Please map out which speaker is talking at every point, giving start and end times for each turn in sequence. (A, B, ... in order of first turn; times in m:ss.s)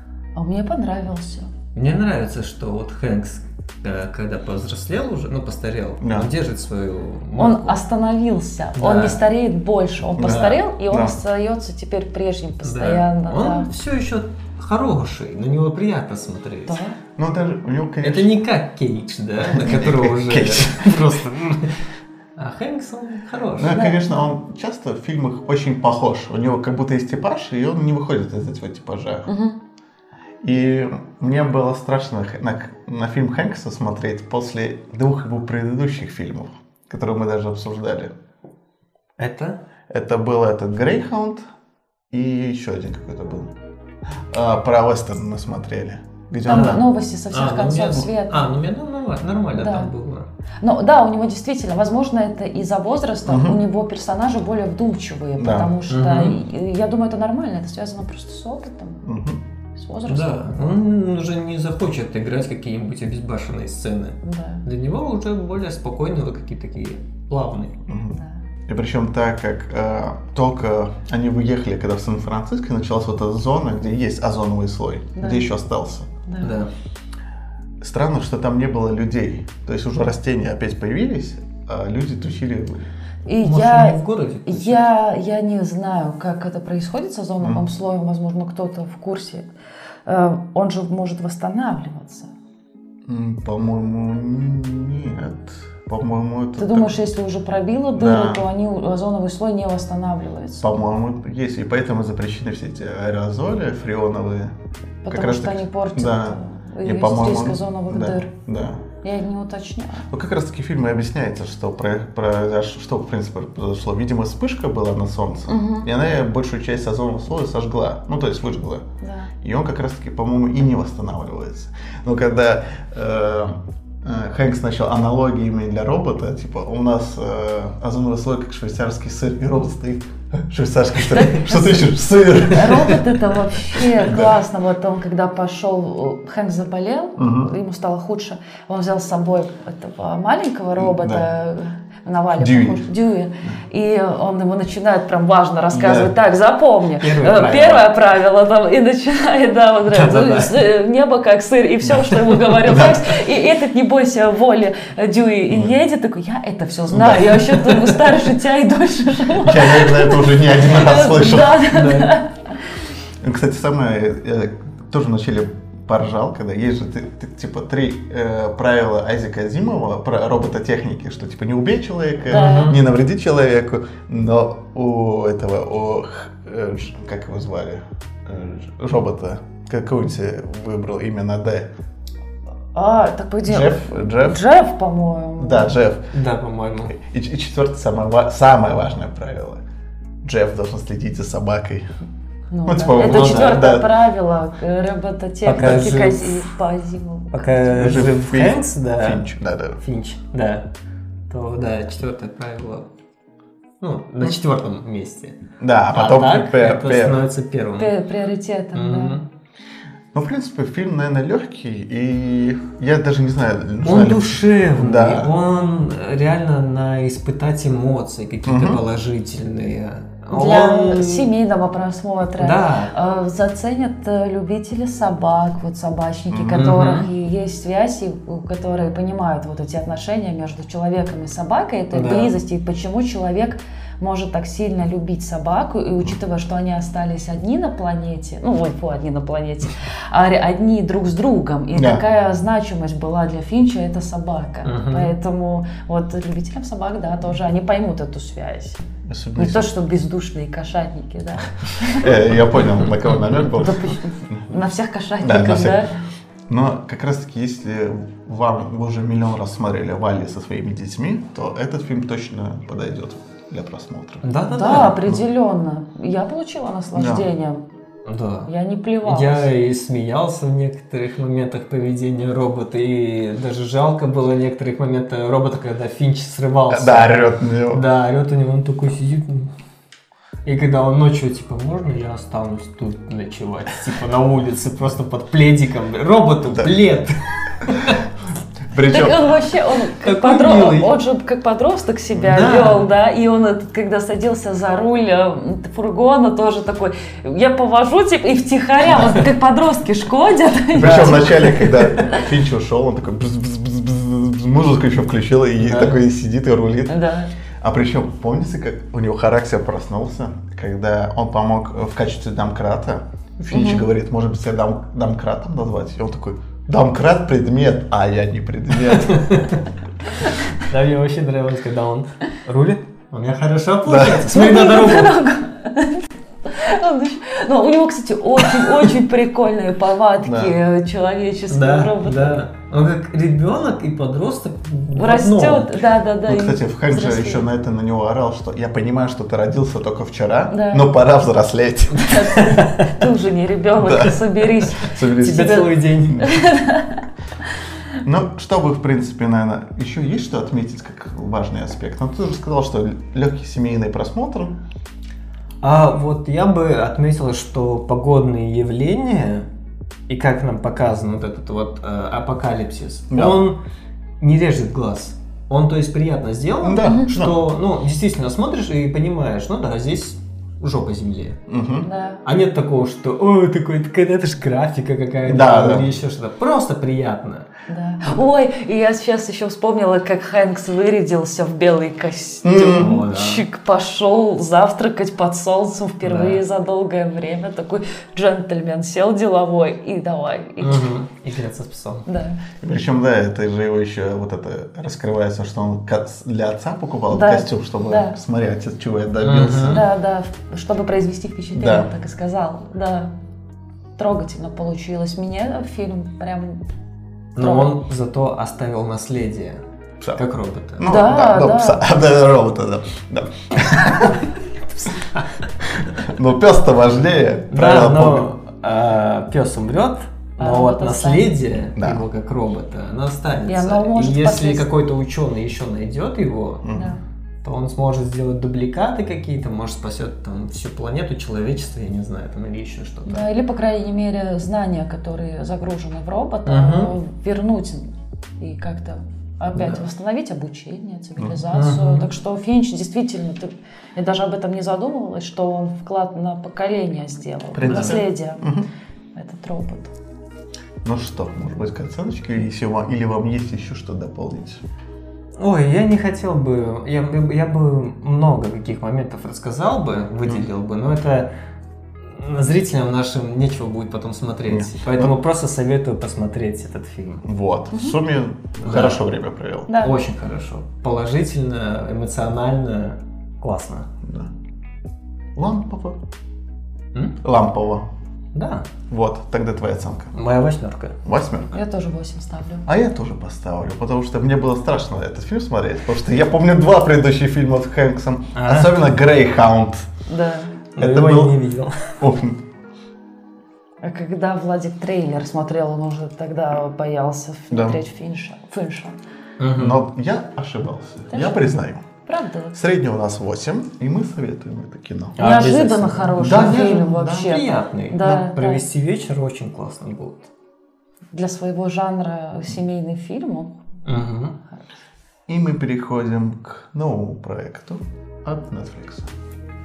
0:00.4-0:01.5 A
0:01.8-0:07.8 B
0:06.0-0:06.3 C
0:07.4-0:13.7 A
0:08.8-0:09.2 B
0:10.2-0:11.2 C
0:10.3-0:10.5 B
0:12.6-0:16.8 B
0:16.7-0:17.0 A
0:17.2-0:18.4 C
0:18.0-0:21.8 B
0:19.6-0:21.2 C
0:22.4-0:23.8 B
0:23.6-0:29.3 C
0:23.7-0:24.2 A
0:29.3-0:29.6 A
0:30.4-0:38.1 C
0:39.2-0:39.6 B
0:39.9-0:41.5 C
0:42.1-0:43.5 C
0:44.3-0:46.8 C
0:46.5-0:48.5 A
0:46.5-0:50.3 B
0:49.6-0:49.9 A
0:50.6-0:59.0 A
0:53.3-0:53.6 C
0:55.4-0:55.7 C
0:55.9-0:56.4 B
0:59.0-0:59.4 C
0:59.8-1:00.7 A
1:00.1-1:07.8 B
1:04.2-1:04.6 A
1:07.9-1:08.2 C
1:08.1-1:08.4 A
1:08.7-1:16.1 C
1:15.2-1:15.4 A
1:16.3-1:16.6 A
1:16.4-1:16.7 B
1:17.8-1:22.9 C
1:23.3-1:29.5 A
1:23.4-1:24.8 B
1:30.1-1:32.3 A
1:33.1-1:37.0 C
1:36.6-1:40.6 A
1:38.0-1:38.4 C
1:40.6-1:44.5 C
1:45.0-1:48.3 A
1:45.1-1:48.8 C
1:49.0-1:50.0 A
1:50.1-1:58.8 C
1:55.5-1:55.9 A
1:59.0-1:59.3 A
1:59.4-2:13.1 C
2:11.1-2:42.3 A
2:13.7-2:14.3 C
2:17.2-2:17.5 C
2:20.8-2:21.2 C
2:22.4-2:22.8 C
2:25.7-2:26.1 C
2:27.0-2:27.9 B
2:29.9-2:30.7 B
2:32.4-2:32.8 B
2:36.9-2:37.4 C
2:37.7-2:38.0 B
2:39.4-2:41.6 C
2:41.6-2:42.2 B
2:43.2-3:01.7 C
2:52.3-2:52.8 A
2:52.3-2:52.8 B
3:02.7-3:05.7 A
3:03.4-3:04.4 C
3:05.4-3:06.1 C
3:06.1-3:06.9 B
3:06.9-3:09.6 C
3:10.2-3:11.9 C
3:12.5-3:18.0 A
3:12.6-3:13.9 C
3:13.0-3:13.7 B
3:15.4-3:16.4 B
3:17.3-3:19.2 B
3:17.8-3:19.8 C
3:19.8-3:20.7 B
3:21.3-3:22.9 B
3:23.8-3:25.4 B
3:25.6-3:27.2 C
3:25.9-3:27.9 B
3:27.8-3:29.2 A
3:28.7-3:29.2 B
3:30.1-3:35.3 C
3:33.8-3:41.3 B
3:38.4-3:38.8 C
3:40.3-4:08.8 A
3:42.4-3:42.9 B
3:46.3-3:46.7 C
3:46.5-3:47.1 B
3:51.9-3:52.3 B
4:01.8-4:02.0 C
4:04.6-4:05.1 B
4:09.1-4:09.7 C
4:09.4-4:12.2 A
4:12.0-4:13.8 C
4:13.5-4:15.9 A
4:15.2-4:15.8 C
4:16.5-4:24.3 C
4:24.2-4:25.0 B
4:24.5-4:27.6 A
4:27.0-4:27.3 C
4:28.0-4:28.5 B
4:28.5-4:29.4 A
4:29.0-4:39.5 B
4:36.7-4:37.8 C
4:40.4-4:48.0 B
4:48.7-4:49.3 C
4:48.8-5:01.9 A
4:50.0-4:50.9 B
4:52.3-4:52.9 B
5:00.7-5:06.9 C
5:00.8-5:01.4 B
5:05.6-5:06.0 B
5:06.9-5:07.3 A
5:07.6-5:19.4 C
5:13.5-5:13.8 A
5:19.1-5:19.6 B
5:20.6-5:25.2 B
5:23.9-5:24.2 C
5:24.0-5:32.5 A
5:30.2-5:30.5 C
5:31.5-5:35.8 B
5:35.0-5:37.4 A
5:36.3-5:42.4 C
5:40.5-5:40.9 A
5:42.0-5:47.0 A
5:42.4-5:42.9 B
5:43.8-5:44.2 C
5:44.8-5:46.3 C
5:45.2-5:46.3 B
5:48.0-5:54.6 C
5:55.6-5:59.5 B
6:00.1-6:03.6 B
6:03.1-6:03.4 C
6:04.2-6:11.4 B
6:06.6-6:07.4 C
6:11.5-6:11.9 C
6:11.8-6:12.2 A
6:12.2-6:17.5 B
6:15.2-6:15.9 C
6:17.7-6:30.9 A
6:22.4-6:22.9 C
6:22.7-6:23.4 B
6:26.0-6:26.4 B
6:30.6-6:32.1 B
6:32.1-6:32.4 A
6:32.6-6:39.8 C
6:37.1-6:38.2 A
6:39.2-6:39.9 B
6:39.6-6:43.1 A
6:41.6-6:41.9 C
6:44.0-6:46.6 A
6:47.4-6:49.6 B
6:47.4-6:47.8 A
6:50.2-6:50.9 B
6:50.8-6:54.2 C
6:50.9-6:51.8 A
6:54.9-6:55.3 B
6:55.7-6:58.3 C
6:57.5-7:06.7 B
7:00.4-7:01.3 A
7:01.8-7:02.0 C
7:03.5-7:04.6 A
7:06.6-7:06.9 C
7:06.7-7:07.0 A
7:07.4-7:13.3 B
7:13.1-7:17.9 A
7:16.5-7:16.9 B
7:18.4-7:28.4 A
7:19.6-7:19.8 B
7:21.5-7:22.1 B
7:27.6-7:28.7 C
7:27.6-7:28.0 B
7:29.2-7:29.9 A
7:30.8-7:34.6 C
7:35.4-7:41.3 B
7:42.0-7:47.2 B
7:44.5-7:45.1 C
7:47.2-7:49.7 C
7:48.6-7:49.0 B
7:49.7-7:50.0 A
7:49.8-7:53.9 B
7:54.0-7:54.3 C
7:55.4-7:56.0 C
7:57.2-7:57.9 C
7:58.3-7:58.7 B
7:58.9-8:00.1 C
8:00.1-8:01.0 B
8:01.0-8:01.6 C
8:01.5-8:02.7 A
8:02.7-8:09.9 C
8:08.4-8:08.8 B
8:10.1-8:10.6 A
8:10.8-8:12.0 B
8:10.8-8:11.4 C
8:12.0-8:12.4 C
8:13.8-8:19.0 A
8:17.5-8:17.8 C
8:19.4-8:19.8 B
8:19.6-8:21.8 C
8:21.1-8:21.5 A
8:22.1-8:22.6 A
8:22.5-8:25.2 C
8:25.2-8:30.3 B
8:25.2-8:28.6 A
8:26.2-8:27.3 C
8:31.1-8:33.5 A
8:33.9-8:34.4 B
8:35.3-8:39.1 C